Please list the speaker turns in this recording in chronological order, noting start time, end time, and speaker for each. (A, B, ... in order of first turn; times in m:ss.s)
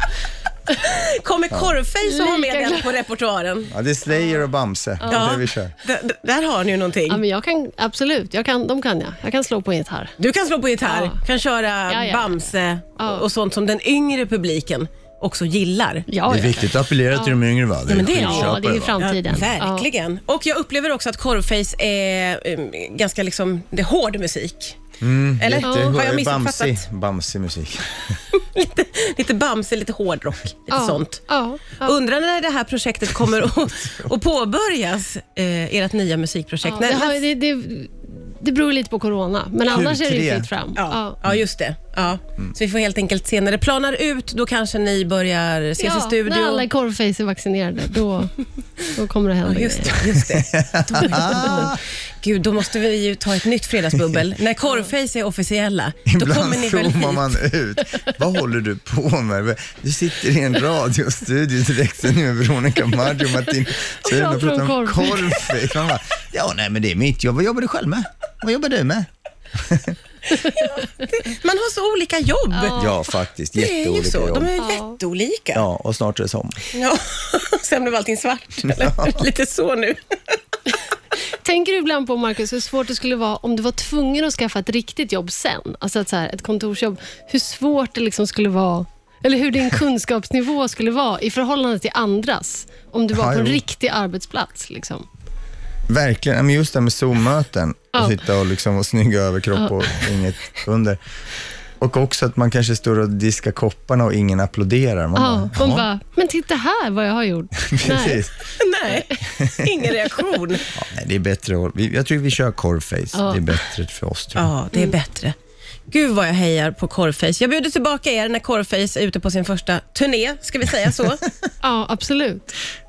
0:00.8-0:03.7 A
0:02.1-0:02.9 B
0:03.7-0:05.7 C
0:04.1-0:04.4 B
0:05.0-0:05.3 B
0:05.1-0:07.2 A
0:07.1-0:10.1 B
0:10.2-0:16.1 A
0:10.8-0:11.2 B
0:11.9-0:13.2 B
0:16.1-0:17.4 B
0:16.3-0:19.0 C
0:17.9-0:24.8 A
0:18.0-0:19.9 B
0:25.0-0:28.2 C
0:25.4-0:26.8 A
0:25.6-0:25.9 B
0:28.3-0:37.2 A
0:30.7-0:32.0 B
0:33.7-0:34.1 C
0:36.6-0:41.2 B
0:39.6-0:40.5 C
0:40.8-0:46.7 A
0:45.8-0:50.0 B
0:49.4-0:57.4 A
0:50.2-0:51.8 C
0:51.0-0:51.7 B
0:56.1-1:10.0 C
1:04.0-1:05.5 B
1:10.3-1:12.8 A
1:12.5-1:13.0 B
1:12.8-1:14.5 C
1:13.6-1:15.6 A
1:14.6-1:15.0 B
1:15.6-1:16.6 C
1:16.7-1:20.4 A
1:18.6-1:19.2 C
1:21.4-1:35.1 B
1:33.1-1:33.6 C
1:35.9-1:41.0 C
1:39.6-1:40.0 B
1:41.8-1:45.9 C
1:45.2-1:48.2 B
1:47.7-1:48.5 C
1:48.6-1:50.6 A
1:49.4-1:49.7 C
1:50.7-1:54.6 C
1:53.1-1:53.4 B
1:54.4-1:55.3 A
1:55.9-2:01.2 A
2:01.6-2:02.6 B